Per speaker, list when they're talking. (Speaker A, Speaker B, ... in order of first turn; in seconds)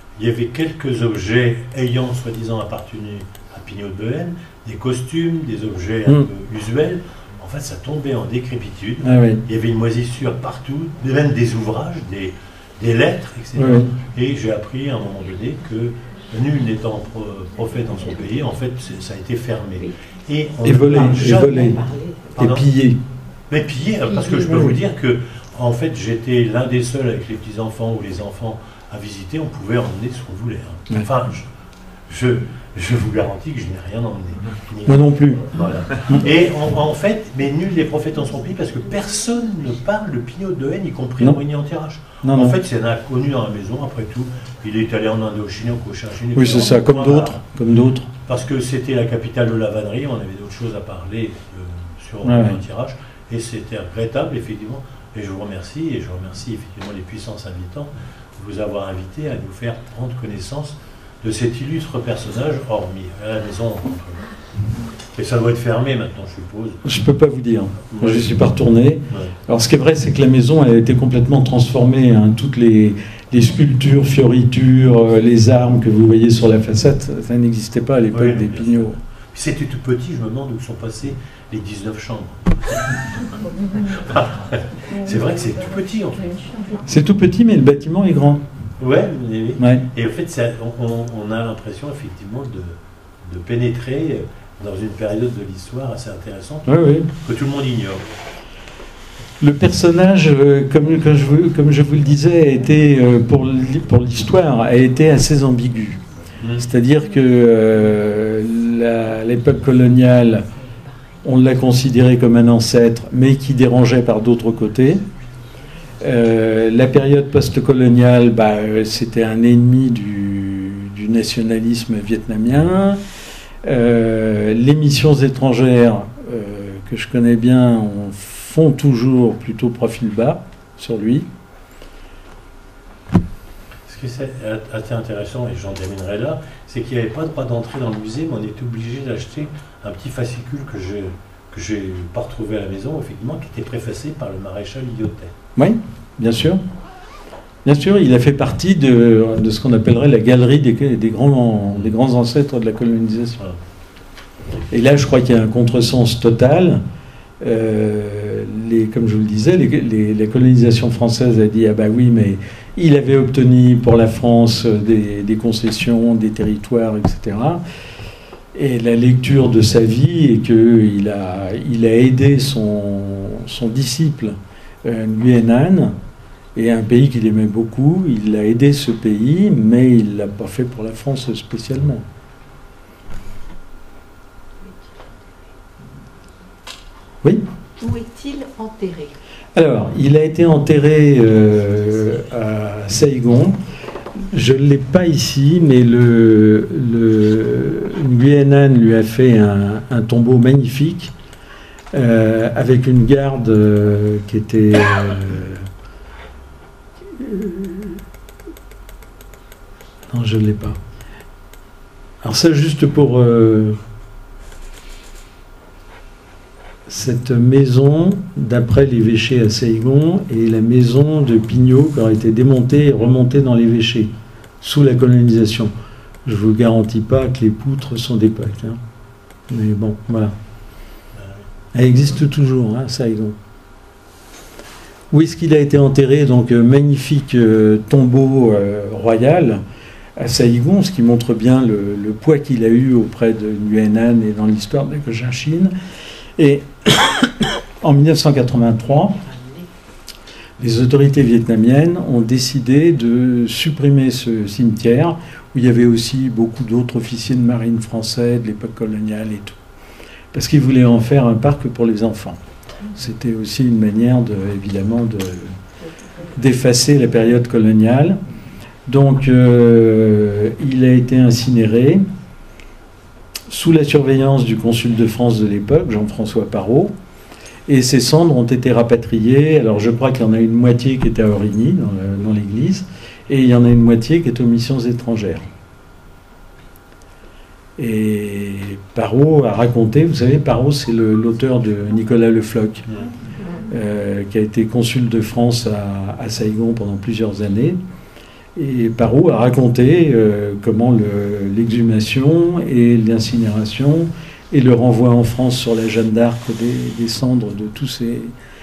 Speaker A: 0.2-21.8, 22.4-22.7, 23.5-31.5, 32.1-47.4, 48.3-64.3, 65.1-66.8, 67.9-68.4, 78.1-86.5, 88.8-98.1, 133.9-145.3, 231.2-231.4
Speaker B: 9.0-9.4, 13.6-13.9, 20.6-21.8, 22.4-23.0, 24.2-24.8, 34.9-35.5, 42.2-42.6, 46.4-48.1, 52.2-52.6, 66.8-79.0, 86.8-88.5, 89.6-89.9, 96.7-97.1, 99.4-106.0, 106.6-110.5, 111.2-115.0, 116.0-123.0, 123.6-131.3, 145.6-146.6, 147.7-153.4, 154.7-156.8, 157.4-167.6, 168.6-176.0, 176.6-182.1, 189.6-193.6, 194.3-201.1, 201.9-205.7, 207.2-208.0, 210.1-210.8, 212.2-213.8, 216.9-225.7, 226.2-228.8, 229.5-230.3, 231.7-233.4, 235.1-239.6, 240.2-245.7, 246.4-249.2, 250.6-259.6, 260.3-262.4, 262.9-265.6, 266.3-268.2, 268.9-272.1, 273.5-276.9, 277.7-285.5, 287.8-293.0, 293.7-297.8, 298.6-308.3
Speaker C: 20.9-22.4, 187.8-189.2, 249.2-249.7